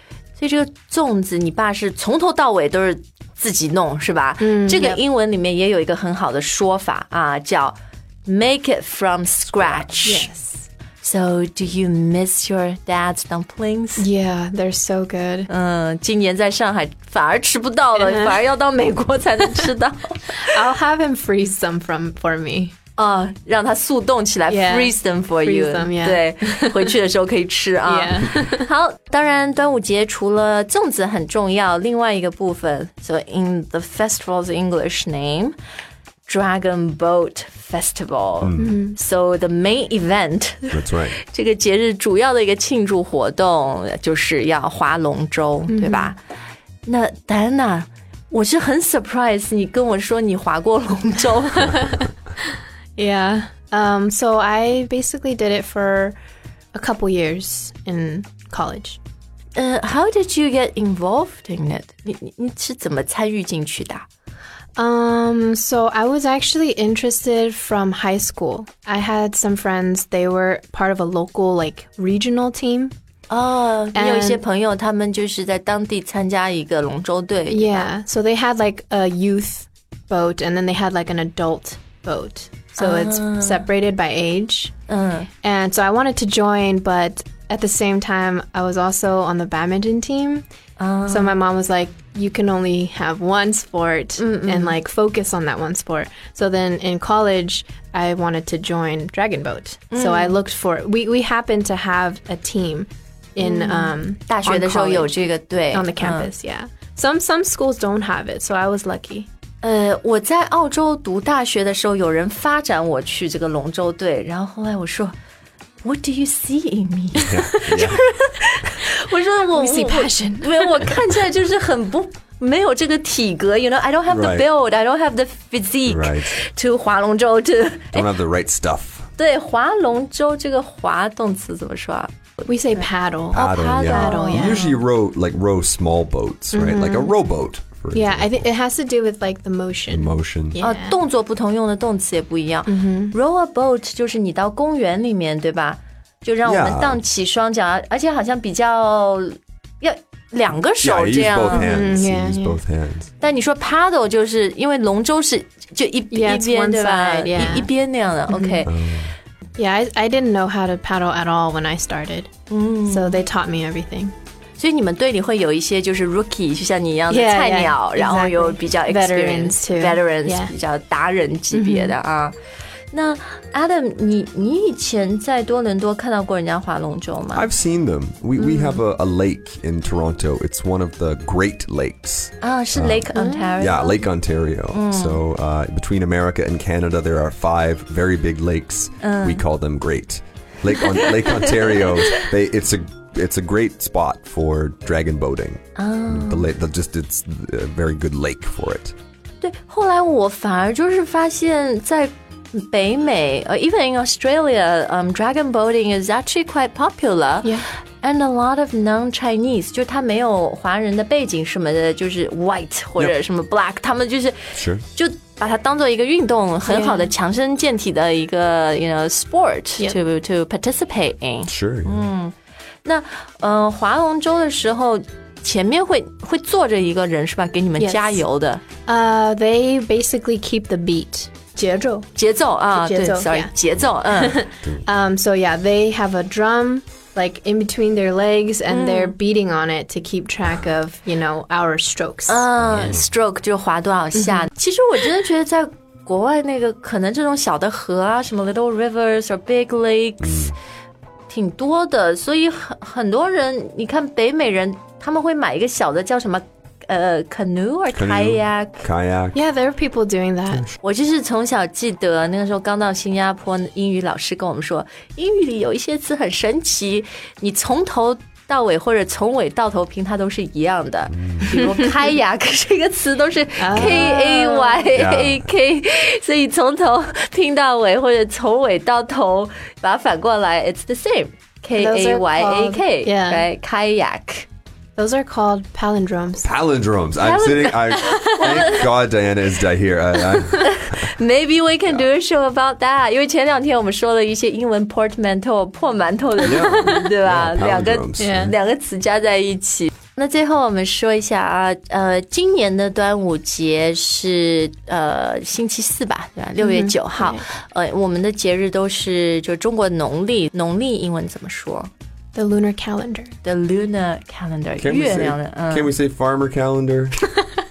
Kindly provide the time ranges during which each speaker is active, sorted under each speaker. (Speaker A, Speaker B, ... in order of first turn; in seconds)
Speaker A: 0.4-10.3, 11.0-14.1, 15.5-20.6, 23.0-35.6, 36.3-46.2, 46.9-52.0, 59.6-64.1, 73.3-77.9, 82.8-83.7, 84.9-85.3, 90.8-91.4, 94.2-94.8, 99.9-100.4, 103.4-106.3, 109.6-115.1, 115.8-128.1, 129.2-132.1, 133.3-134.8, 140.6-151.9, 153.2-158.8, 162.5-163.2, 164.6-172.3, 172.9-177.5, 178.4-178.8, 182.4-184.0, 184.7-185.2, 189.0-189.4, 190.8-192.3, 195.8-196.5, 199.4-228.6, 232.2-234.5, 238.7-239.2, 242.3-250.5, 251.3-258.9, 260.8-284.5, 287.2-288.9, 290.6-311.9, 313.4-315.9
Speaker B: 4.4-5.0, 10.0-10.7, 14.0-15.5, 18.0-18.4, 20.3-22.8, 24.5-26.9, 27.8-28.7, 38.6-39.0, 45.7-46.1, 53.0-56.2, 56.7-59.0, 64.8-72.9, 74.0-74.4, 77.5-84.7, 85.4-90.5, 91.1-109.3, 119.5-120.8, 132.5-134.8, 136.5-137.2, 137.9-141.0, 142.7-143.2, 151.5-152.6, 156.1-157.7, 158.3-158.6, 159.6-162.3, 162.9-164.1, 167.1-170.5, 171.5-172.0, 183.1-183.8, 216.7-217.1, 227.8-228.2, 228.9-232.1, 232.7-233.5, 234.1-242.5, 244.2-244.5, 259.3-260.6, 273.6-274.9, 281.8-283.5, 285.0-286.5, 298.2-298.5, 306.6-307.5, 312.4-313.3
Speaker C: 38.4-38.8, 40.7-41.2, 117.2-118.0, 124.1-124.5, 125.9-126.4, 127.9-129.1, 133.3-138.4, 139.9-140.6, 146.4-147.0, 150.8-153.1, 158.7-159.2, 177.3-198.9, 214.6-214.8, 221.5-222.1, 242.6-243.0, 250.2-250.6, 257.9-259.4, 260.5-260.7, 271.1-271.6, 274.9-275.5, 286.4-291.1, 296.4-298.5, 314.8-317.3